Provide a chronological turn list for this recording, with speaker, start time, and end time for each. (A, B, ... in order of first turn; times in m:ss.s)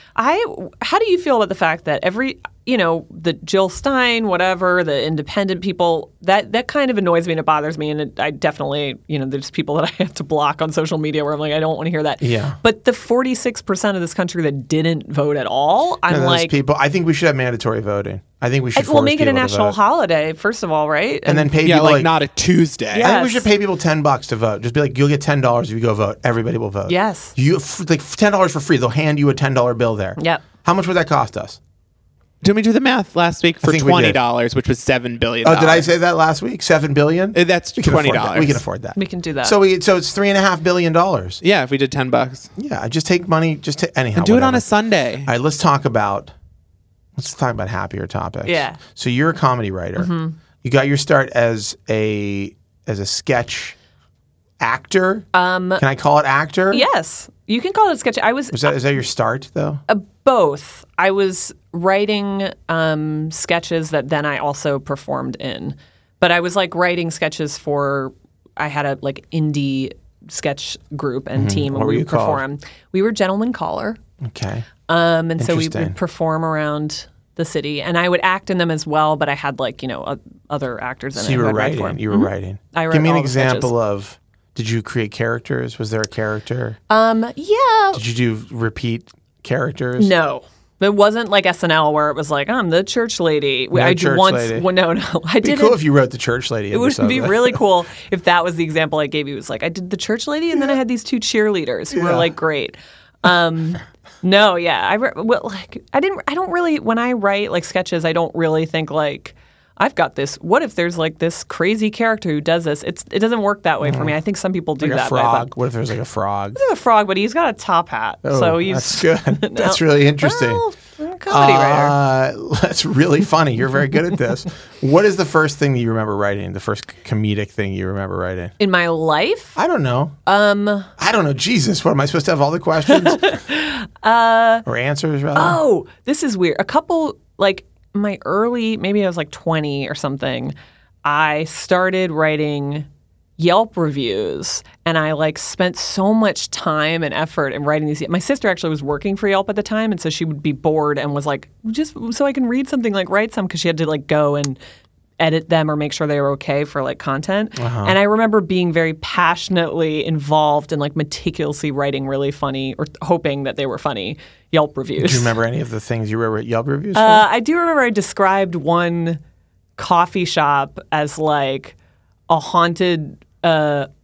0:00.2-0:16.6 A
0:12.2-0:12.6 B
0:16.1-0:19.8 B
0:18.8-0:21.5 A
0:21.2-0:22.1 B
0:21.6-0:23.1 C
0:22.9-0:23.5 A
0:23.0-0:31.6 B
0:26.9-0:27.3 A
0:30.2-0:30.4 A
0:32.4-0:35.9 C
0:33.6-0:34.2 B
0:35.4-0:41.4 B
0:37.4-0:38.6 C
0:39.0-0:39.6 A
0:41.4-0:42.5 C
0:42.6-0:44.7 B
0:44.2-0:45.3 C
0:45.2-0:46.3 B
0:47.2-0:53.8 B
0:48.4-0:48.8 A
0:50.0-0:50.4 A
0:54.6-0:55.3 B
0:55.3-0:55.8 A
0:55.8-0:56.8 B
0:56.7-0:58.7 A
0:58.5-0:59.8 B
0:59.9-1:14.0 A
1:11.4-1:12.4 B
1:14.2-1:14.7 B
1:14.9-1:23.7 A
1:15.4-1:16.0 B
1:21.1-1:26.8 B
1:26.9-1:28.0 A
1:27.9-1:30.1 B
1:30.0-1:35.8 A
1:33.7-1:34.7 B
1:35.4-1:37.6 B
1:36.7-1:55.5 A
1:41.9-1:42.3 B
1:53.8-1:54.1 B
1:54.8-1:56.6 B
1:56.5-2:02.0 A
1:58.2-2:00.6 B
2:01.3-2:08.5 B
2:08.6-2:09.6 A
2:09.6-2:10.2 B
2:10.2-2:10.9 A
2:11.0-2:13.4 B
2:12.9-2:14.6 A
2:14.6-2:15.6 B
2:15.3-2:20.5 A
2:21.0-2:22.9 A
2:23.4-2:34.6 A
2:35.2-2:45.3 A
2:37.6-2:38.0 B
2:45.0-2:47.2 B
2:47.0-2:49.2 A
2:49.8-2:51.8 A
2:52.3-2:53.9 A